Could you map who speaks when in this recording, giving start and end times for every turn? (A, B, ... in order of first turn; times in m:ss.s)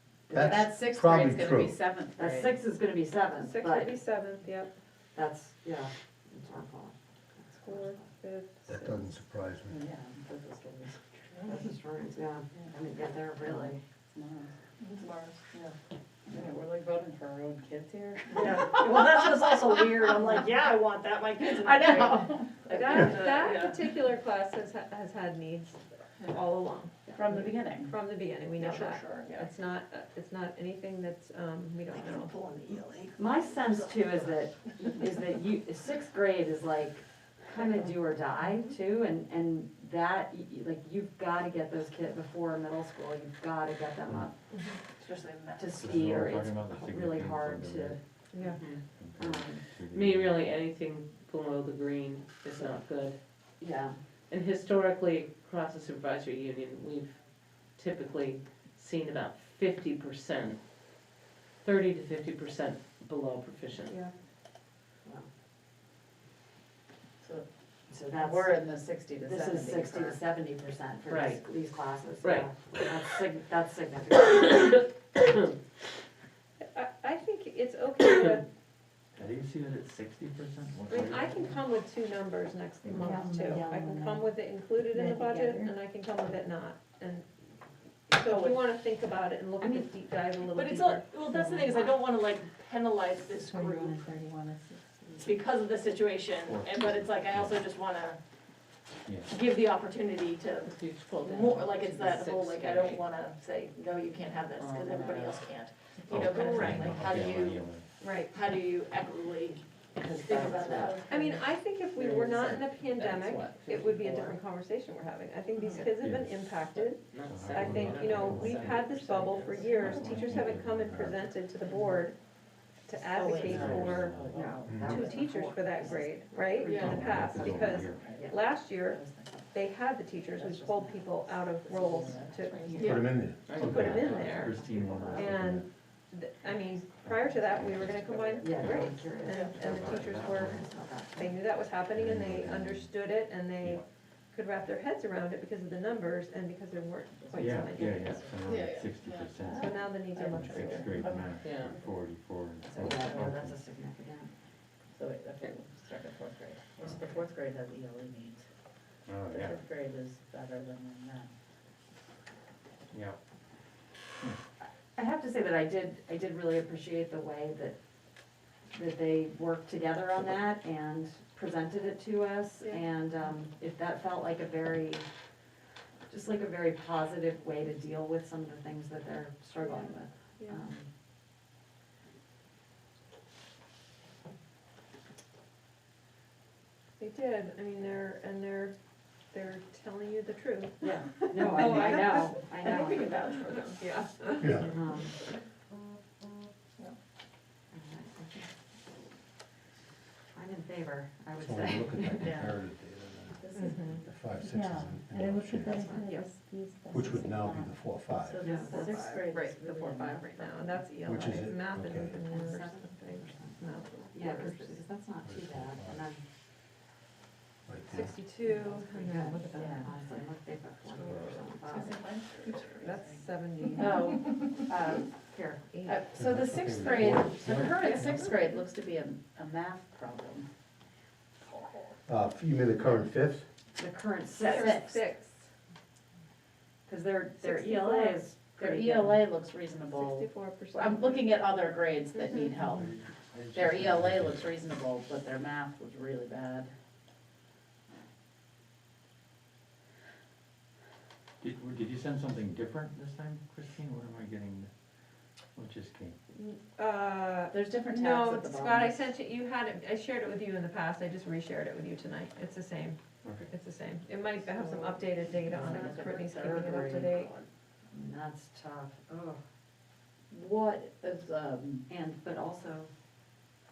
0:00.3-0:00.7 A
0:00.3-0:01.9 B
0:00.4-0:02.6 C
0:02.1-0:04.0 A
0:03.4-0:04.7 D
0:05.1-0:08.1 A
0:07.5-0:09.2 D
0:08.7-0:09.8 B
0:09.7-0:11.6 C
0:11.4-0:13.8 A
0:13.4-0:14.6 C
0:14.8-0:15.4 E
0:15.5-0:15.7 C
0:16.3-0:20.4 C
0:18.5-0:19.0 E
0:19.8-0:22.2 E
0:21.4-0:23.2 C
0:22.7-0:32.3 D
0:22.7-0:23.7 E
0:27.1-0:27.9 C
0:28.6-0:29.4 E
0:31.9-0:33.3 E
0:33.2-0:44.3 A
0:45.0-0:45.7 E
0:45.6-0:48.0 A
0:45.7-0:48.0 F
0:48.3-0:48.6 D
0:48.4-0:48.8 G
0:49.0-0:50.4 F
0:49.2-0:49.6 A
0:49.9-0:53.2 G
0:53.6-0:54.0 A
0:54.3-1:00.6 G
1:01.6-1:04.0 G
1:07.9-1:08.6 A
1:08.1-1:10.2 C
1:09.2-1:14.8 A
1:11.1-1:11.5 G
1:12.2-1:12.5 G
1:16.7-1:18.4 D
1:19.2-1:21.6 F
1:20.9-1:27.3 D
1:22.9-1:25.7 H
1:23.4-1:23.7 A
1:28.1-1:31.1 D
1:28.3-1:28.5 E
1:29.6-1:29.9 A
1:30.6-1:34.0 E
1:31.3-1:31.9 H
1:33.4-1:35.4 H
1:35.2-1:38.2 E
1:36.4-1:37.6 F
1:39.0-1:39.3 F
1:39.3-1:47.6 E
1:40.6-1:43.0 G
1:44.5-1:45.5 G
1:46.1-1:47.9 F
1:48.0-1:48.3 D
1:48.3-1:49.6 E
1:50.0-1:50.9 G
1:50.1-1:51.4 C
1:50.2-1:51.0 E
1:51.1-2:02.2 D
1:51.9-1:54.4 C
1:56.0-1:56.3 F
1:56.7-2:00.2 G
1:57.2-1:58.8 F
1:58.3-2:00.6 C
1:59.8-2:01.3 F
2:01.6-2:02.0 C
2:02.7-2:04.2 D
2:03.0-2:05.2 C
2:03.2-2:07.3 A
2:03.4-2:04.3 F
2:04.7-2:05.0 B
2:04.8-2:09.0 D
2:06.7-2:07.0 E
2:06.7-2:08.0 F
2:07.1-2:09.5 C
2:08.0-2:08.4 A
2:09.5-2:28.3 D
2:10.4-2:12.9 C
2:12.8-2:13.0 E
2:12.8-2:13.9 B
2:13.4-2:14.4 G
2:13.5-2:15.7 F
2:14.4-2:15.3 C
2:17.0-2:17.9 F
2:17.3-2:18.6 C
2:18.4-2:21.3 A
2:18.6-2:20.6 F
2:21.9-2:22.9 F
2:27.2-2:28.4 C
2:27.3-2:33.6 F
2:28.5-2:29.3 E
2:29.4-2:31.9 C
2:29.5-2:31.0 D
2:31.4-2:31.8 G
2:32.6-2:33.3 C
2:32.7-2:34.3 A
2:34.9-2:38.5 C
2:39.0-2:39.6 F
2:39.2-2:41.3 C
2:42.9-2:43.2 F
2:44.9-2:47.8 A
2:48.7-2:55.0 A
2:56.1-3:00.9 A
2:59.6-3:00.6 D
3:07.0-3:08.8 D
3:09.3-3:12.7 D
3:10.8-3:13.2 A
3:12.6-3:13.8 E
3:13.7-3:14.8 D
3:14.4-3:14.7 B
3:14.5-3:15.1 A
3:17.7-3:18.5 A
3:20.3-3:22.3 A
3:21.3-3:25.9 B
3:22.2-3:22.6 C
3:23.4-3:24.0 C
3:23.5-3:24.0 D
3:23.8-3:27.4 H
3:25.7-3:26.0 A
3:25.7-3:26.3 D
3:26.9-3:28.5 B
3:27.4-3:27.7 C
3:28.2-3:30.8 C
3:28.4-3:29.2 A
3:28.5-3:34.8 D
3:31.0-3:32.1 B
3:32.1-3:33.6 A
3:34.1-3:36.2 A
3:35.2-3:36.1 B
3:37.7-3:38.1 B
3:37.9-3:39.9 D
3:37.9-3:42.0 A
3:39.6-3:39.9 C
3:41.1-3:43.2 C
3:42.4-3:44.4 D
3:43.8-3:45.1 C
3:44.9-3:45.7 A
3:45.7-3:46.0 D
3:45.8-3:50.5 C
3:46.1-3:48.4 B
3:47.9-3:48.6 D
3:52.0-3:53.5 B
3:53.8-3:55.1 A
3:54.4-3:55.5 D
3:56.9-3:59.2 A
3:57.4-3:58.2 D
3:58.6-4:03.0 C
3:59.9-4:01.4 D
4:02.1-4:02.5 D
4:02.7-4:04.6 F
4:03.5-4:06.7 C
4:11.4-4:14.7 F
4:15.5-4:16.2 F
4:16.3-4:27.3 D
4:17.5-4:19.1 C
4:23.2-4:23.5 F
4:24.4-4:27.4 C
4:25.5-4:27.0 A
4:27.9-4:29.4 A
4:30.3-4:31.8 C
4:31.9-4:32.9 A